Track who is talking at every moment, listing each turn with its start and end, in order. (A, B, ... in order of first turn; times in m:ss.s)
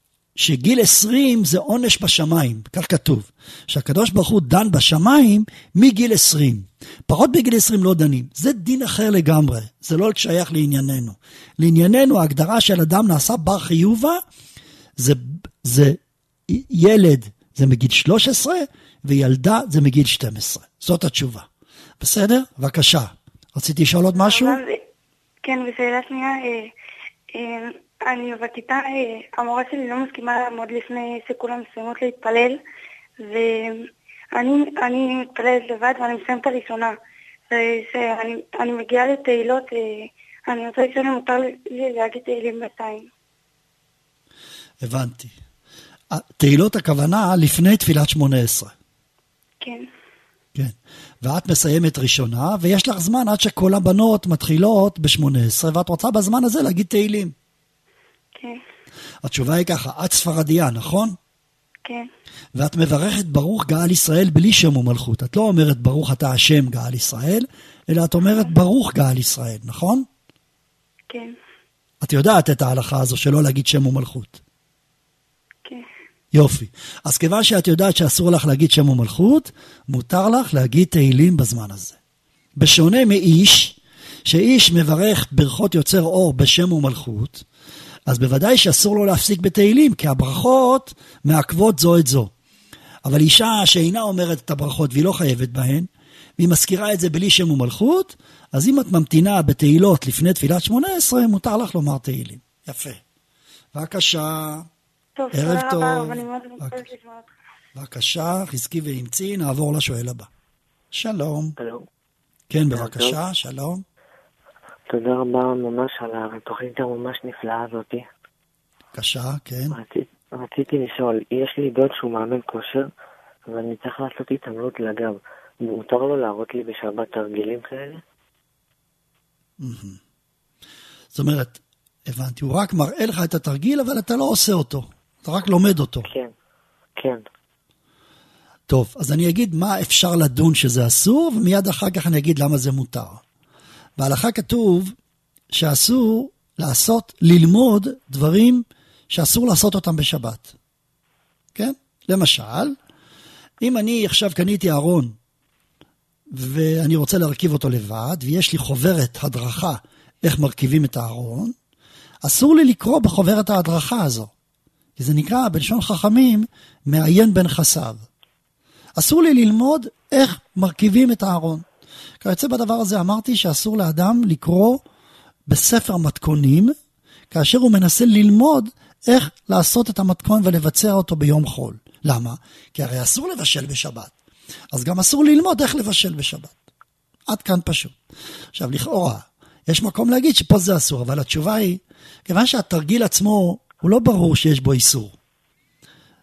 0:00.4-0:14.2 A
0:15.0-0:21.5 A
0:22.0-0:24.6 A
0:24.2-0:24.8 B
0:25.4-0:26.7 B
0:27.3-0:32.6 B
0:33.2-0:37.0 B
0:37.5-0:43.1 B
0:44.8-0:45.3 A
0:46.1-0:48.7 A
0:49.6-0:49.9 B
0:50.6-0:57.3 A
0:58.4-0:58.6 B
0:59.2-1:01.2 A
1:02.6-1:10.1 A
1:12.0-1:14.4 A
1:16.3-1:22.0 A
1:22.6-1:27.5 A
1:28.1-1:32.3 A
1:33.0-1:43.0 A
1:43.7-1:44.7 A
1:45.2-1:47.3 B
1:45.3-1:46.9 A
1:47.8-1:50.3 A
1:50.9-1:51.6 A
1:51.6-1:51.9 C
1:52.5-1:53.8 A
1:52.7-1:53.2 C
1:54.9-1:58.1 C
1:58.9-1:59.8 A
1:59.7-2:02.9 C
2:03.5-2:08.0 C
2:09.6-2:10.0 A
2:11.1-2:16.1 A
2:16.0-2:16.3 C
2:17.0-2:17.2 C
2:18.7-2:23.2 A
2:24.0-2:24.9 A
2:25.5-2:30.6 A
2:31.6-2:32.8 A
2:33.6-2:35.2 A
2:36.3-2:41.6 A
2:42.2-2:44.3 A
2:45.0-2:48.1 A
2:49.0-2:51.7 A
2:52.2-2:54.8 A
2:55.5-2:56.8 A
2:57.3-3:04.1 A
3:04.7-3:06.6 A
3:07.3-3:08.0 A
3:08.5-3:15.1 A